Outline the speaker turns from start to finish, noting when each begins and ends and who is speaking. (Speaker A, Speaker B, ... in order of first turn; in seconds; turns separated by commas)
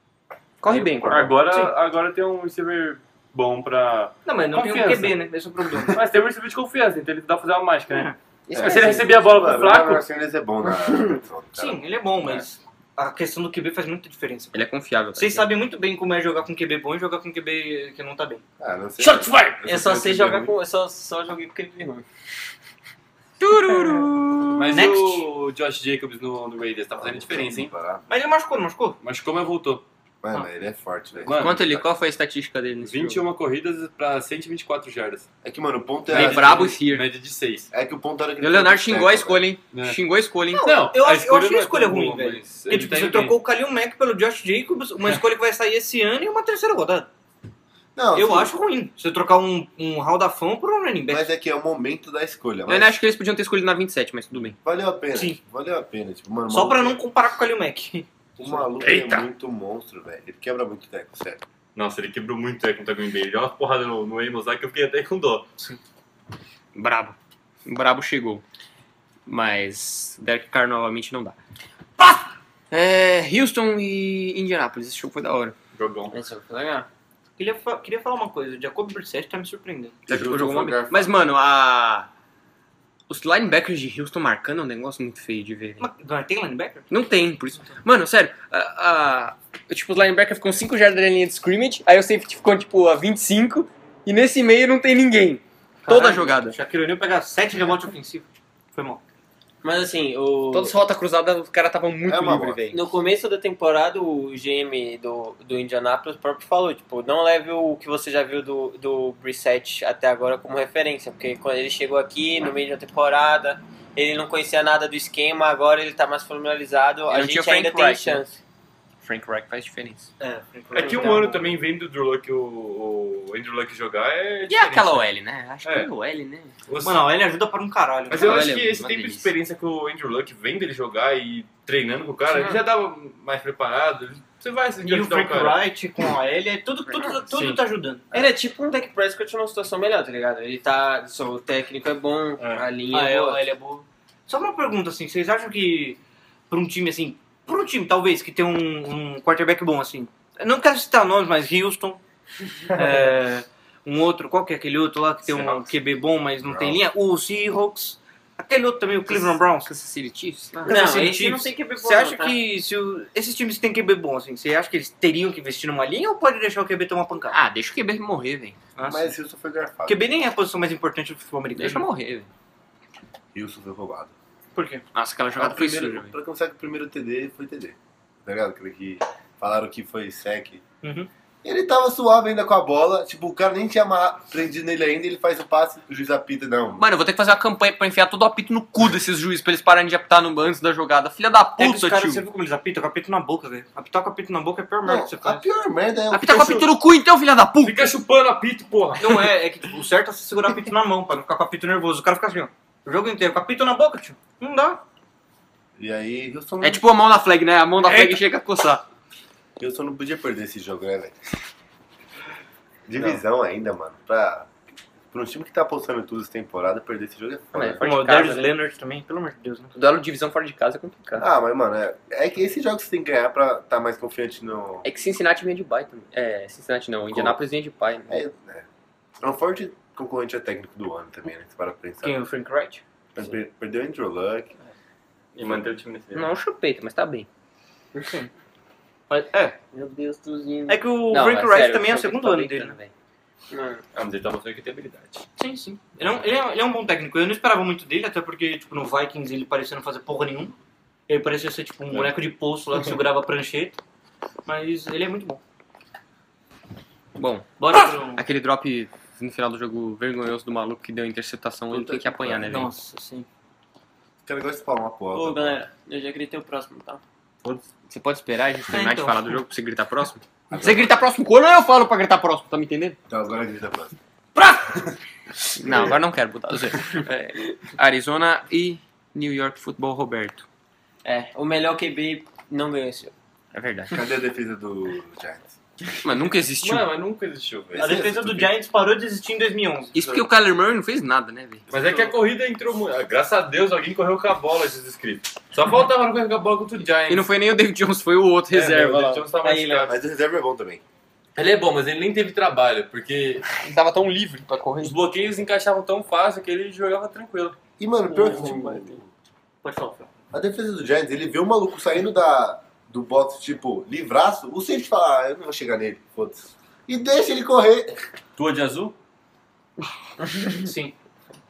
Speaker A: 0.6-1.4, Speaker B: 0.7-5.2, Speaker C: 4.2-6.0, Speaker B: 5.7-10.1, Speaker C: 7.9-8.1, Speaker A: 8.5-8.9, Speaker D: 8.5-12.4, Speaker C: 11.6-14.6, Speaker A: 14.5-15.5, Speaker C: 15.2-18.4, Speaker D: 18.6-20.5, Speaker B: 19.0-19.3, Speaker E: 19.6-22.0, Speaker A: 23.4-24.7, Speaker B: 24.5-27.7, Speaker C: 24.7-25.2, Speaker D: 26.9-28.1, Speaker C: 28.1-29.0, Speaker B: 29.0-29.8, Speaker D: 30.2-31.9, Speaker B: 31.2-31.6, Speaker A: 31.4-33.2, Speaker B: 32.8-35.3, Speaker D: 35.4-36.7, Speaker B: 36.0-37.7, Speaker A: 36.1-37.1, Speaker D: 37.7-39.5, Speaker A: 38.4-40.7, Speaker B: 39.7-40.0, Speaker C: 40.5-47.1, Speaker B: 40.6-43.4, Speaker D: 48.0-48.5, Speaker C: 48.1-51.3, Speaker D: 51.1-53.0, Speaker A: 52.7-54.5, Speaker D: 54.6-57.0, Speaker C: 55.1-55.4, Speaker C: 56.5-58.0, Speaker D: 58.4-61.4, Speaker A: 58.8-59.2, Speaker B: 61.7-65.5, Speaker A: 66.7-68.4, Speaker A: 69.3-71.3, Speaker A: 72.0-75.5, Speaker B: 75.7-76.2, Speaker E: 76.1-76.9, Speaker C: 77.4-80.0, Speaker D: 80.1-81.1, Speaker A: 80.1-82.1, Speaker A: 83.1-85.8, Speaker C: 85.8-86.9, Speaker A: 86.9-96.6, Speaker C: 95.8-99.0, Speaker E: 99.6-100.7, Speaker A: 100.5-102.9, Speaker D: 102.0-102.6, Speaker E: 102.7-118.4, Speaker A: 117.1-118.2, Speaker A: 119.0-120.1, Speaker C: 120.2-121.5, Speaker B: 120.7-125.0, Speaker A: 124.5-126.5, Speaker B: 125.6-125.9, Speaker B: 126.7-127.1, Speaker C: 126.8-128.5, Speaker B: 128.1-135.6, Speaker A: 128.1-129.3, Speaker E: 132.3-132.6, Speaker C: 134.8-138.2, Speaker E: 138.1-143.4, Speaker C: 142.9-152.0, Speaker C: 152.7-159.7, Speaker D: 156.4-156.8, Speaker A: 159.1-160.8, Speaker C: 160.6-167.4, Speaker E: 160.7-162.4, Speaker A: 167.3-168.6, Speaker C: 168.8-169.1, Speaker D: 168.9-170.0, Speaker C: 169.8-171.8, Speaker A: 171.5-172.3, Speaker D: 173.3-174.1, Speaker C: 174.5-174.8, Speaker A: 174.9-176.1, Speaker D: 175.4-180.6, Speaker C: 180.8-181.1, Speaker D: 181.4-186.8, Speaker A: 186.8-192.2, Speaker C: 191.6-195.4, Speaker D: 194.8-196.7, Speaker A: 196.1-197.9, Speaker B: 197.6-199.3, Speaker C: 199.0-204.8, Speaker D: 205.8-206.8, Speaker A: 206.6-208.8, Speaker C: 207.8-208.2, Speaker D: 209.6-211.2, Speaker D: 212.9-214.5, Speaker D: 215.1-217.8, Speaker A: 217.5-218.5, Speaker C: 217.8-219.7, Speaker A: 219.7-221.3, Speaker D: 221.2-224.8, Speaker A: 224.8-228.2, Speaker D: 227.1-227.4, Speaker D: 228.1-228.7, Speaker D: 229.2-232.2, Speaker C: 232.0-232.8, Speaker D: 233.1-234.5, Speaker B: 235.3-236.3, Speaker A: 236.1-237.3, Speaker C: 239.1-239.6, Speaker E: 239.7-240.8, Speaker C: 240.7-242.8, Speaker A: 241.1-242.9, Speaker E: 243.5-243.8, Speaker B: 243.9-245.2, Speaker C: 245.4-250.6, Speaker B: 246.0-246.3, Speaker C: 251.1-253.8, Speaker B: 251.9-252.2, Speaker C: 254.4-255.4, Speaker A: 257.1-262.7, Speaker C: 257.6-258.2, Speaker D: 261.8-262.3, Speaker C: 262.5-263.2, Speaker D: 264.2-265.6, Speaker E: 265.1-267.0, Speaker A: 267.9-273.0, Speaker C: 268.7-269.4, Speaker D: 270.5-270.9, Speaker D: 273.1-273.9, Speaker A: 275.6-280.4, Speaker D: 275.6-276.0, Speaker E: 281.3-283.1, Speaker A: 283.5-283.9, Speaker D: 283.9-285.5, Speaker A: 286.0-286.9, Speaker B: 286.6-288.1, Speaker D: 287.7-288.5, Speaker C: 287.8-289.9, Speaker A: 289.9-291.6, Speaker B: 290.0-290.3, Speaker B: 291.7-297.3, Speaker A: 297.1-299.8, Speaker B: 298.5-300.0, Speaker D: 299.9-300.8, Speaker B: 301.4-303.4, Speaker A: 303.6-305.0, Speaker B: 304.8-307.6, Speaker D: 307.8-309.1, Speaker C: 309.6-310.1, Speaker D: 310.3-318.0, Speaker B: 318.4-318.9, Speaker C: 320.6-320.9